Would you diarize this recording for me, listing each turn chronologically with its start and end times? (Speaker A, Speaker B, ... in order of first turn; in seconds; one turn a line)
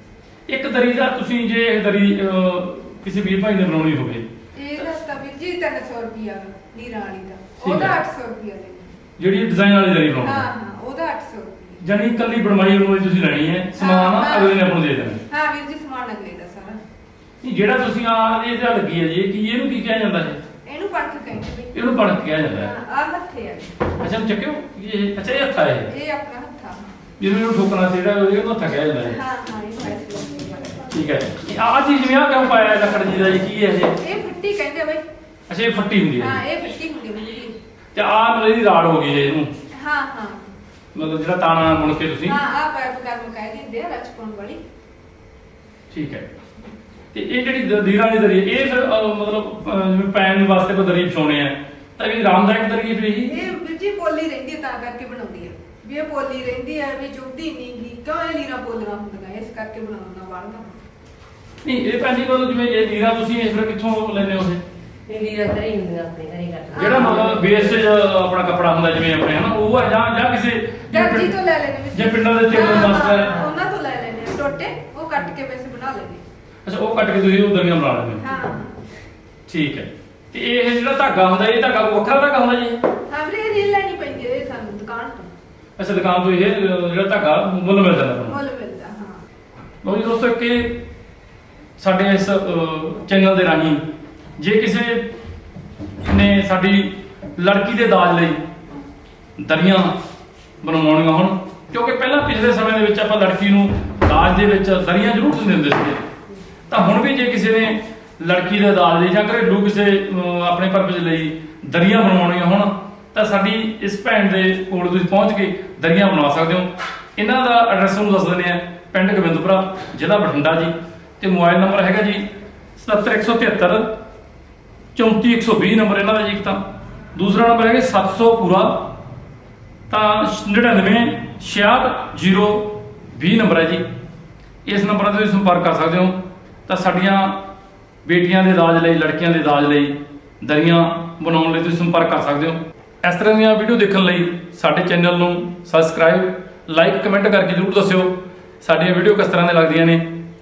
Speaker A: 0.5-4.3
Speaker B: 4.6-8.9
Speaker A: 7.6-7.9
Speaker A: 9.2-10.5
Speaker B: 10.2-11.8
Speaker A: 11.8-15.2
Speaker B: 13.8-14.6
Speaker B: 15.3-16.8
Speaker A: 17.4-20.4
Speaker B: 20.7-21.8
Speaker A: 21.7-22.7
Speaker B: 22.5-23.7
Speaker A: 24.0-25.9
Speaker B: 25.9-26.9
Speaker A: 27.2-29.2
Speaker B: 29.1-30.9
Speaker A: 30.9-34.0
Speaker B: 34.0-35.1
Speaker A: 35.5-36.4
Speaker B: 36.2-37.6
Speaker A: 37.9-39.5
Speaker B: 39.8-40.4
Speaker A: 40.9-42.4
Speaker B: 42.2-44.6
Speaker A: 45.9-46.2
Speaker A: 47.1-53.4
Speaker B: 53.3-60.8
Speaker A: 61.6-64.6
Speaker C: 65.1-67.8
Speaker B: 66.7-67.2
Speaker A: 66.8-71.3
Speaker B: 70.9-76.2
Speaker A: 71.9-73.4
Speaker A: 76.7-78.2
Speaker B: 78.2-78.8
Speaker A: 79.5-82.8
Speaker B: 83.1-85.3
Speaker A: 85.8-88.4
Speaker B: 88.3-89.2
Speaker A: 89.8-90.8
Speaker A: 91.8-93.8
Speaker A: 94.4-95.1
Speaker A: 96.0-98.4
Speaker A: 99.4-99.9
Speaker A: 100.6-106.0
Speaker A: 106.7-123.9
Speaker A: 124.9-126.6
Speaker A: 127.1-129.0
Speaker A: 129.9-133.9
Speaker A: 134.7-137.4
Speaker A: 138.1-150.0